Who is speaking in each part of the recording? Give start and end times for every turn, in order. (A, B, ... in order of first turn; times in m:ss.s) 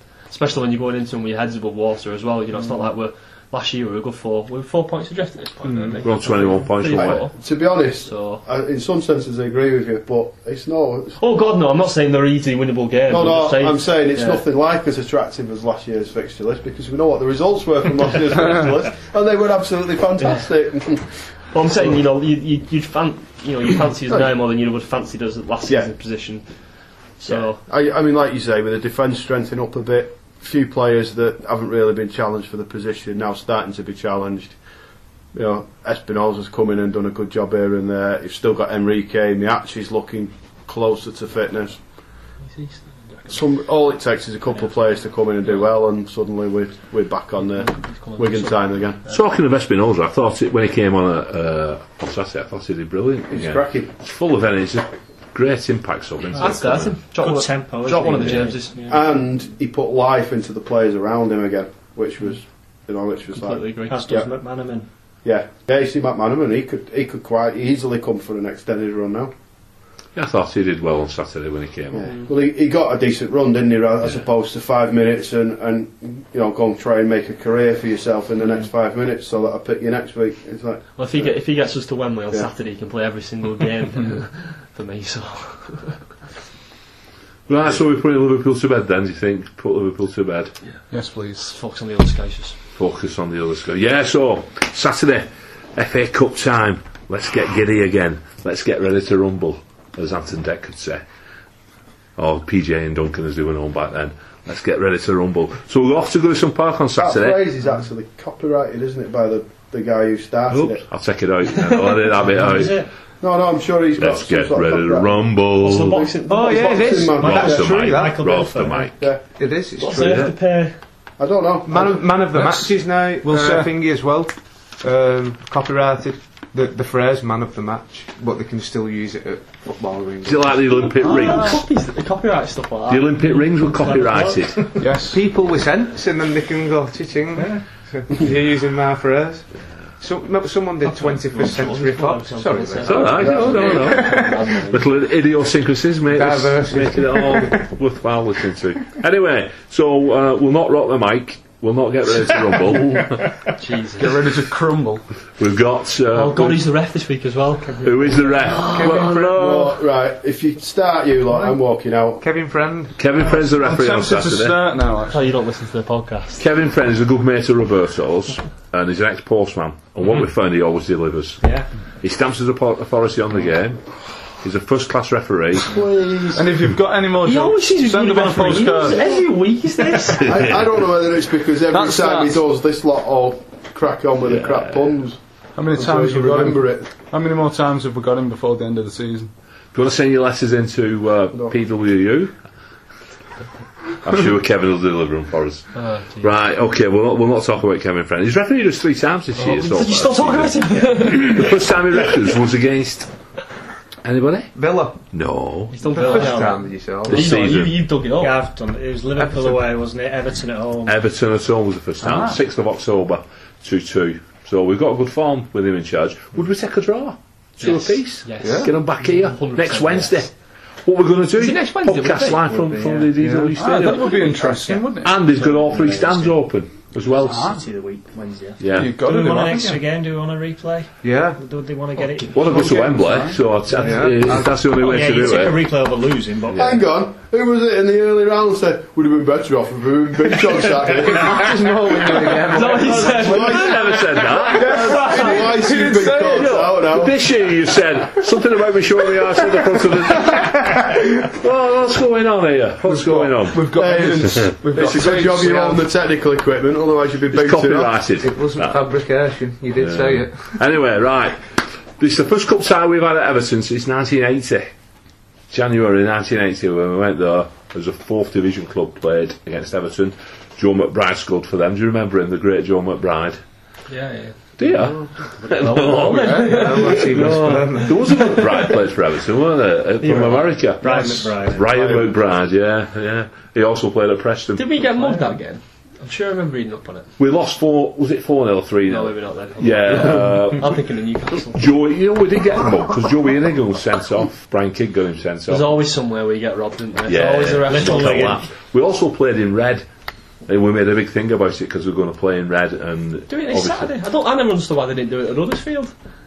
0:00.3-0:08.4 A
0:05.6-0:06.0 B
0:06.0-0:07.3 C
0:06.9-0:11.2 D
0:11.2-0:14.4 A
0:13.1-0:21.1 D
0:20.2-0:20.9 A
0:21.5-0:27.6 A
0:27.2-0:34.6 D
0:35.3-0:41.8 D
0:42.5-0:43.4 A
0:43.3-0:49.0 D
0:47.6-0:49.2 A
0:49.1-0:57.0 C
0:53.3-0:53.9 D
0:56.4-0:58.9 A
0:57.1-0:58.9 E
0:58.8-1:04.3 D
1:03.3-1:04.0 A
1:03.9-1:04.9 E
1:05.2-1:09.3 D
1:10.2-1:12.1 C
1:11.9-1:21.4 D
1:21.0-1:26.0 A
1:27.5-1:30.5 C
1:30.9-1:31.5 B
1:31.4-1:32.6 A
1:32.7-1:41.0 C
1:42.2-1:47.4 C
1:47.0-1:50.8 D
1:50.5-1:52.8 C
1:52.4-1:52.9 E
1:53.2-1:55.2 D
1:54.0-1:56.1 C
1:55.6-1:57.0 A
1:55.9-1:57.8 D
1:56.2-1:58.4 F
1:57.1-1:59.1 C
1:57.7-1:58.9 E
1:59.2-2:00.3 F
1:59.8-2:00.8 A
2:00.0-2:00.3 C
2:01.2-2:02.1 D
2:01.6-2:10.9 F
2:02.3-2:03.8 B
2:10.2-2:11.6 C
2:11.0-2:14.3 A
2:12.9-2:14.8 C
2:13.8-2:14.5 E
2:14.8-2:15.2 B
2:15.0-2:24.6 F
2:17.4-2:17.6 B
2:20.8-2:24.8 A
2:22.8-2:33.4 C
2:23.2-2:23.9 D
2:26.1-2:27.7 F
2:33.6-2:34.2 A
2:34.0-2:35.0 B
2:35.4-2:36.6 C
2:36.1-2:39.1 A
2:37.8-2:39.7 C
2:38.6-2:39.5 F
2:39.3-2:42.2 D
2:42.2-2:43.0 F
2:43.0-2:44.6 C
2:43.2-2:45.2 B
2:45.1-2:46.4 A
2:46.4-2:55.8 C
2:51.4-2:51.7 E
2:55.7-2:56.5 D
2:56.3-2:59.2 B
2:57.2-3:00.6 A
3:00.2-3:06.9 D
3:01.7-3:02.4 B
3:04.3-3:04.8 C
3:05.6-3:09.3 B
3:09.7-3:12.4 C
3:14.0-3:23.1 C
3:15.7-3:16.3 A
3:19.4-3:22.2 A
3:24.0-3:26.3 C
3:24.5-3:25.0 F
3:25.7-3:28.4 A
3:25.8-3:27.4 F
3:27.1-3:27.9 C
3:28.2-3:31.0 E
3:29.2-3:29.6 F
3:30.8-3:44.3 C
3:32.0-3:32.3 B
3:37.6-3:40.3 A
3:38.4-3:38.8 F
3:41.3-3:42.9 A
3:42.6-3:43.6 F
3:43.5-3:45.2 B
3:44.0-3:46.4 E
3:45.0-3:47.5 C
3:47.3-3:53.2 E
3:48.6-3:49.0 C
3:48.7-3:49.8 B
3:51.0-3:51.4 F
3:52.3-3:55.6 C
3:53.0-3:53.3 B
3:53.7-3:54.6 F
3:54.6-3:56.8 E
3:56.5-4:07.2 D
4:00.8-4:03.6 F
4:02.5-4:04.0 A
4:02.8-4:05.4 C
4:04.5-4:06.7 F
4:04.7-4:05.4 A
4:06.3-4:13.6 C
4:09.7-4:10.9 F
4:12.9-4:15.8 B
4:13.7-4:18.0 D
4:13.8-4:14.1 F
4:14.7-4:15.4 F
4:17.3-4:18.8 C
4:18.2-4:20.6 F
4:19.8-4:24.7 C
4:25.5-4:33.4 C
4:33.9-4:34.5 A
4:34.6-4:44.7 C
4:34.6-4:38.1 F
4:35.5-4:38.7 A
4:40.0-4:40.5 A
4:40.8-4:41.7 E
4:41.6-4:42.1 D
4:44.6-4:47.1 A
4:47.2-4:50.8 C
4:48.9-4:51.8 A
4:51.5-4:55.8 C
4:55.5-4:58.4 A
4:57.1-4:59.8 C
4:57.7-4:58.4 E
5:00.4-5:03.9 C
5:03.3-5:05.9 A